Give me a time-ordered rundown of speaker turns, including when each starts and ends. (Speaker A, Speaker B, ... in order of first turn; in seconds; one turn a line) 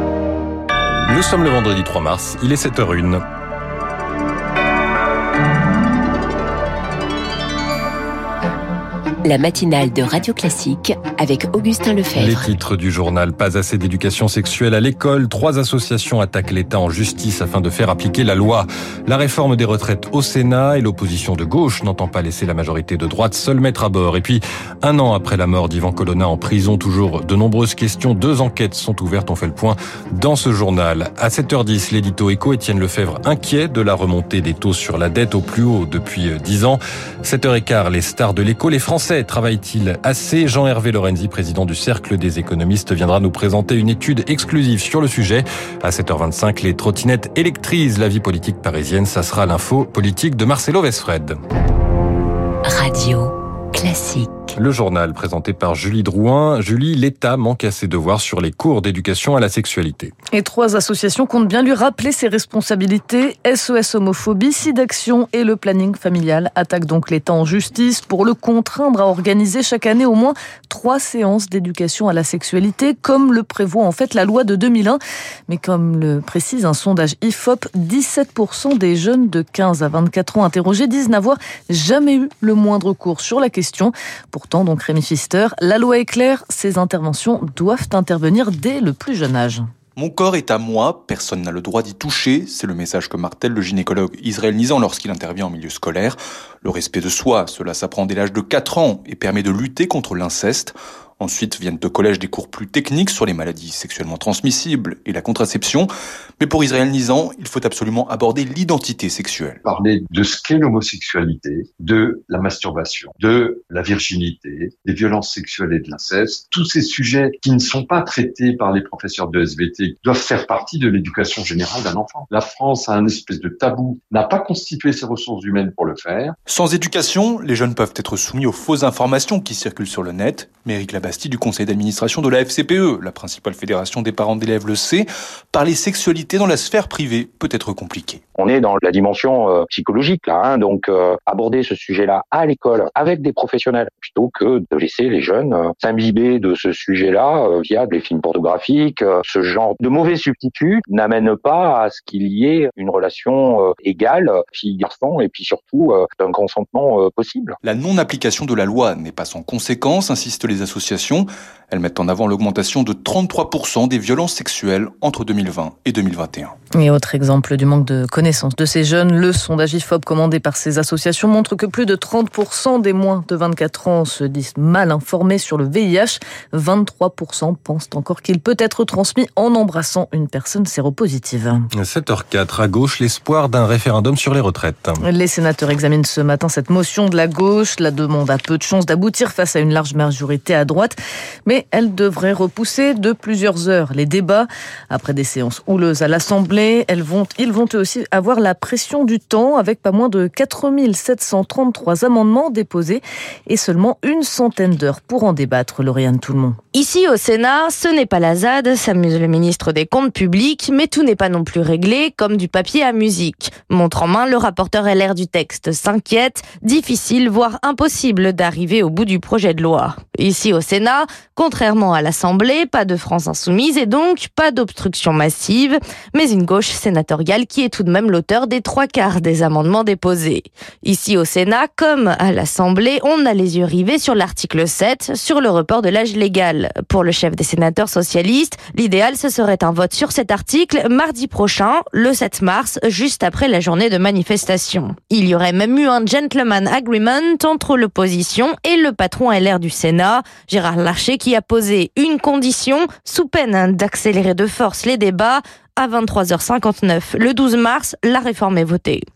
Speaker A: 1.1-3.2
Speaker B: 9.2-12.6
Speaker A: 12.1-51.4
Speaker B: 52.7-54.5
Speaker A: 54.5-60.1
Speaker C: 60.3-89.7
Speaker D: 90.0-109.6
Speaker E: 109.6-126.3
Speaker D: 126.5-138.2
Speaker F: 138.4-157.6
Speaker D: 157.6-166.6
Speaker C: 166.8-181.7
Speaker A: 181.7-185.0
Speaker C: 185.0-190.9
Speaker C: 191.5-206.6
Speaker G: 206.7-259.1